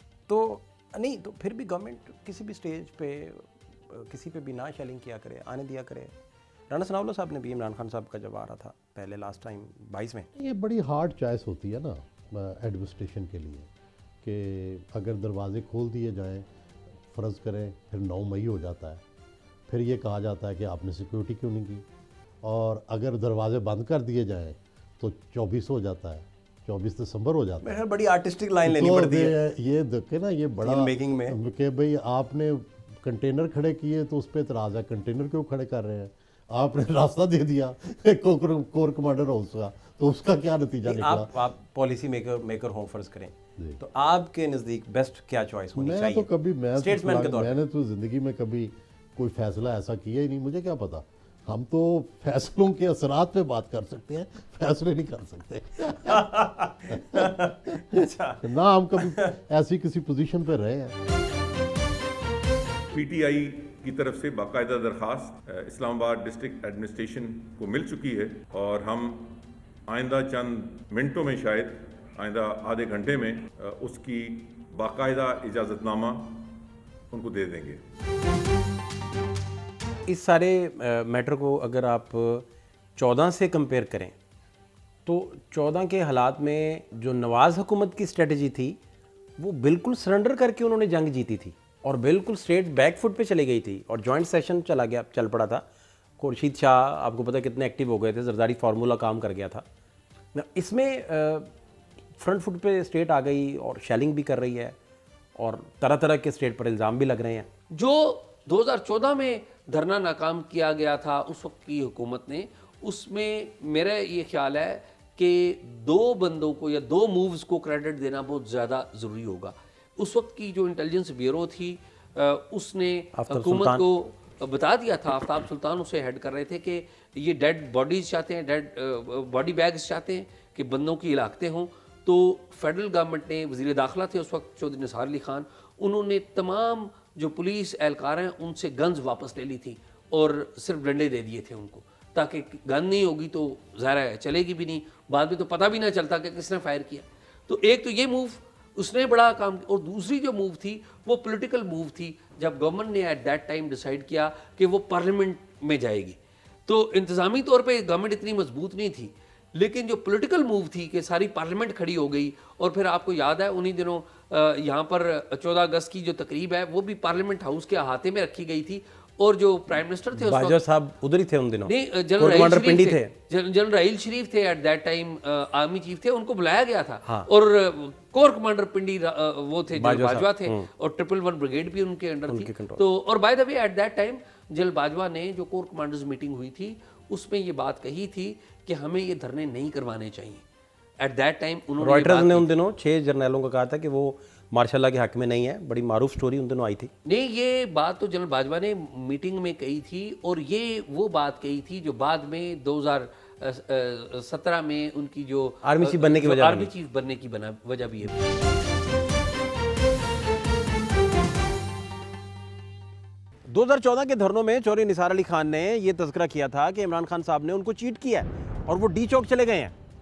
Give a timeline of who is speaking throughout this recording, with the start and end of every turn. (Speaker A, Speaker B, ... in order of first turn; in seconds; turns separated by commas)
Speaker A: 0.3-6.1, Speaker A: 6.7-10.3, Speaker B: 10.3-13.7, Speaker B: 14.2-16.5, Speaker B: 17.1-19.0, Speaker B: 19.7-21.8, Speaker B: 22.4-27.8, Speaker A: 27.6-29.3, Speaker B: 28.6-41.3, Speaker A: 30.6-31.4, Speaker A: 40.9-47.5, Speaker B: 45.8-56.3, Speaker A: 56.0-58.5, Speaker B: 56.9-60.9, Speaker A: 59.0-59.3, Speaker C: 62.9-77.8, Speaker A: 80.1-84.1, Speaker A: 85.0-88.8, Speaker A: 89.4-95.6, Speaker A: 96.2-99.6, Speaker A: 100.3-101.5, Speaker A: 102.2-104.7, Speaker A: 105.4-107.5, Speaker D: 107.7-170.6, Speaker A: 123.1-123.8, Speaker A: 170.2-173.1, Speaker D: 171.7-190.4, Speaker A: 179.8-180.7, Speaker A: 182.3-182.8, Speaker D: 191.0-192.5, Speaker A: 191.8-196.9, Speaker D: 197.0-208.3, Speaker A: 205.6-206.7, Speaker A: 213.5-219.7